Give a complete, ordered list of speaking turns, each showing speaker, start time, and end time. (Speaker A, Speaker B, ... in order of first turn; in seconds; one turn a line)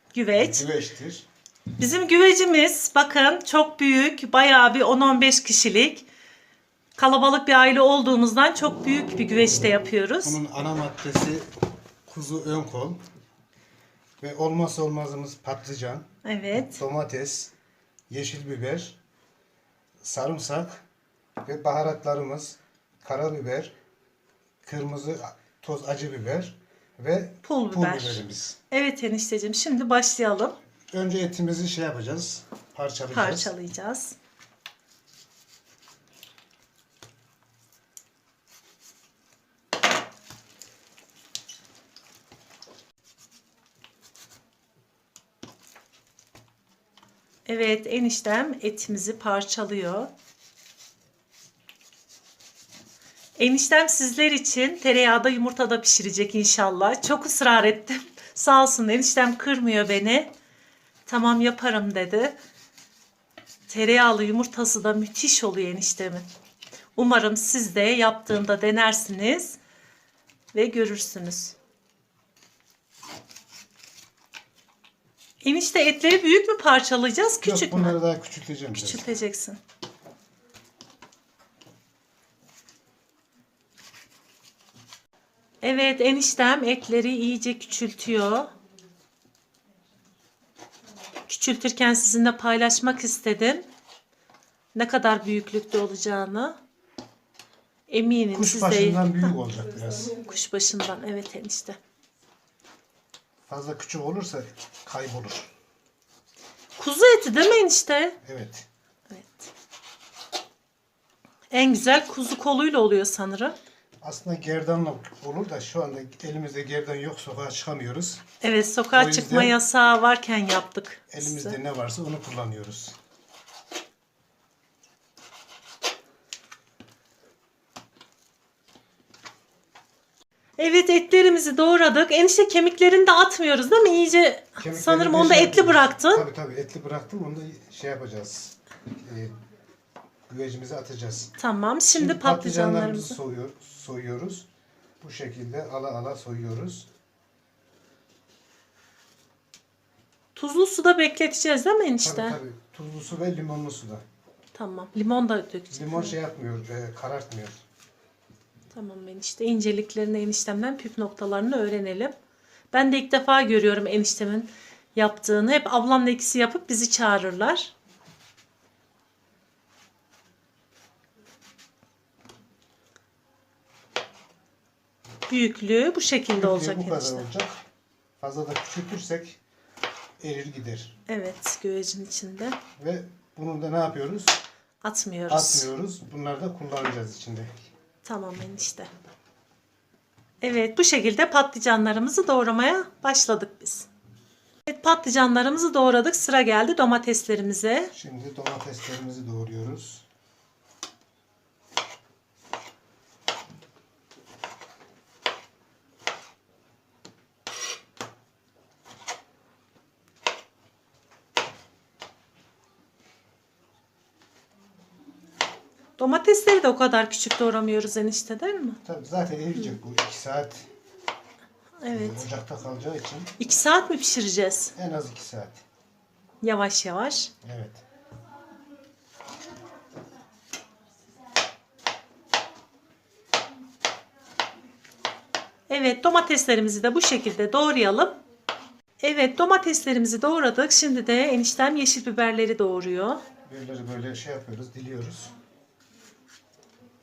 Speaker A: 0.1-0.7
Speaker B: 0.3-1.3
Speaker A: 1.8-6.1
Speaker A: 7.0-10.4
Speaker B: 10.2-11.5
Speaker B: 12.1-13.0
Speaker B: 14.2-16.1
Speaker A: 16.2-16.8
Speaker B: 16.7-17.5
Speaker B: 18.1-19.0
Speaker B: 20.0-20.8
Speaker B: 21.4-23.8
Speaker B: 24.6-28.6
Speaker A: 27.4-30.6
Speaker B: 30.9-33.5
Speaker A: 33.1-34.2
Speaker A: 47.5-50.1
Speaker A: 53.4-60.3
Speaker A: 61.1-62.4
Speaker A: 63.7-66.3
Speaker A: 67.0-69.6
Speaker A: 70.5-71.5
Speaker A: 75.4-78.0
Speaker B: 77.4-79.1
Speaker A: 78.7-79.6
Speaker A: 85.6-88.5
Speaker A: 91.3-93.7
Speaker A: 94.8-96.6
Speaker A: 97.9-99.3
Speaker B: 98.3-100.2
Speaker A: 100.1-101.8
Speaker B: 103.5-105.5
Speaker A: 106.8-108.2
Speaker B: 108.2-108.7
Speaker A: 109.1-109.5
Speaker A: 111.5-113.6
Speaker B: 114.0-118.2
Speaker A: 118.4-121.6
Speaker B: 118.9-119.6
Speaker B: 121.1-123.0
Speaker A: 130.6-136.3
Speaker B: 134.6-139.4
Speaker B: 140.3-141.3
Speaker A: 141.4-143.2
Speaker B: 141.9-144.5
Speaker B: 145.0-146.9
Speaker A: 150.3-152.4
Speaker B: 152.0-154.0
Speaker A: 154.5-156.2
Speaker B: 155.7-157.6
Speaker A: 158.7-162.1
Speaker A: 162.7-167.7
Speaker A: 175.3-177.2
Speaker B: 176.3-177.6
Speaker B: 178.2-179.4
Speaker B: 180.2-181.0
Speaker A: 181.1-182.6
Speaker B: 182.8-184.4
Speaker A: 184.8-185.7
Speaker B: 185.3-187.7
Speaker A: 188.0-188.9
Speaker A: 190.4-193.9
Speaker A: 194.7-197.9
Speaker B: 197.9-200.1
Speaker A: 216.0-218.8
Speaker B: 218.8-220.7
Speaker A: 221.8-222.3
Speaker B: 221.9-223.3
Speaker A: 223.4-224.7
Speaker B: 224.8-225.6
Speaker A: 226.4-227.3
Speaker B: 227.4-227.8
Speaker A: 235.7-238.2
Speaker A: 239.0-243.2
Speaker B: 243.5-245.3